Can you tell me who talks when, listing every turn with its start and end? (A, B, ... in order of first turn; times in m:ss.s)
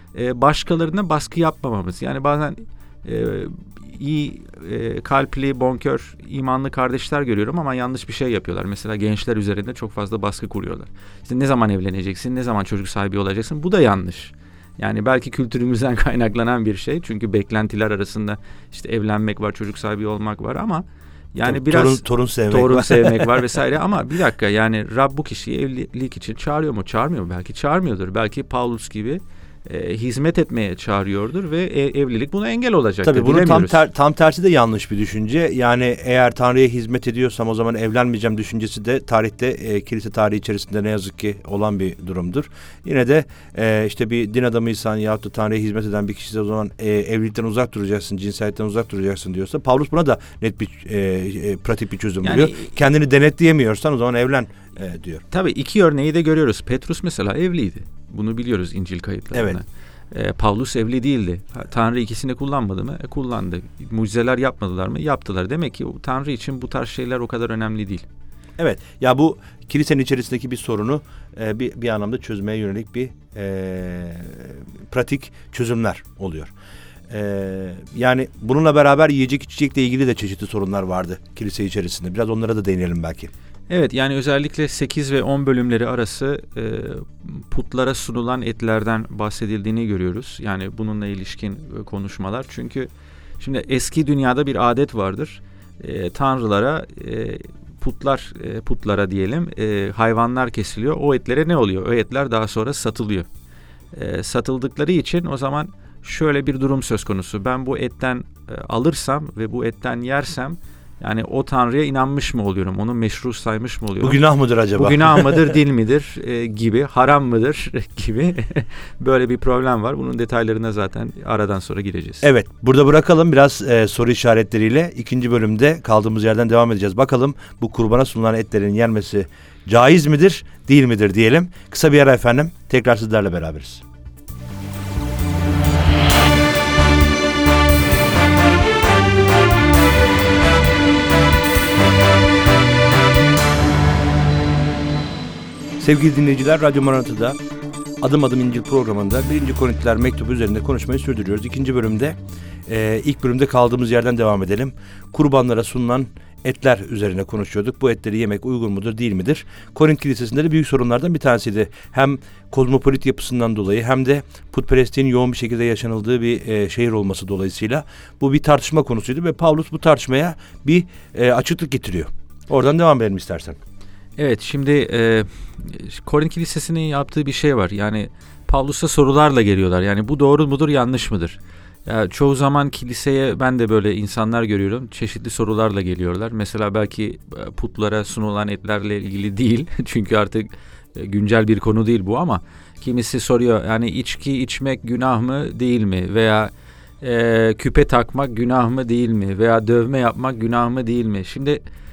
0:00.1-0:33.8 A
0:21.4-0:23.4 B
0:33.0-0:55.2 B
0:52.2-0:52.8 A
0:55.3-1:08.0 A
0:59.3-0:59.6 B
1:08.6-1:16.5 B
1:17.1-1:23.3 B
1:23.7-1:32.9 A
1:33.4-1:43.3 A
1:43.9-1:54.2 A
1:54.0-1:55.5 B
1:54.7-2:02.3 A
2:02.2-2:13.8 B
2:25.8-2:27.4 B
2:28.0-2:32.2 B
2:32.7-2:53.6 B
2:54.2-3:21.6 A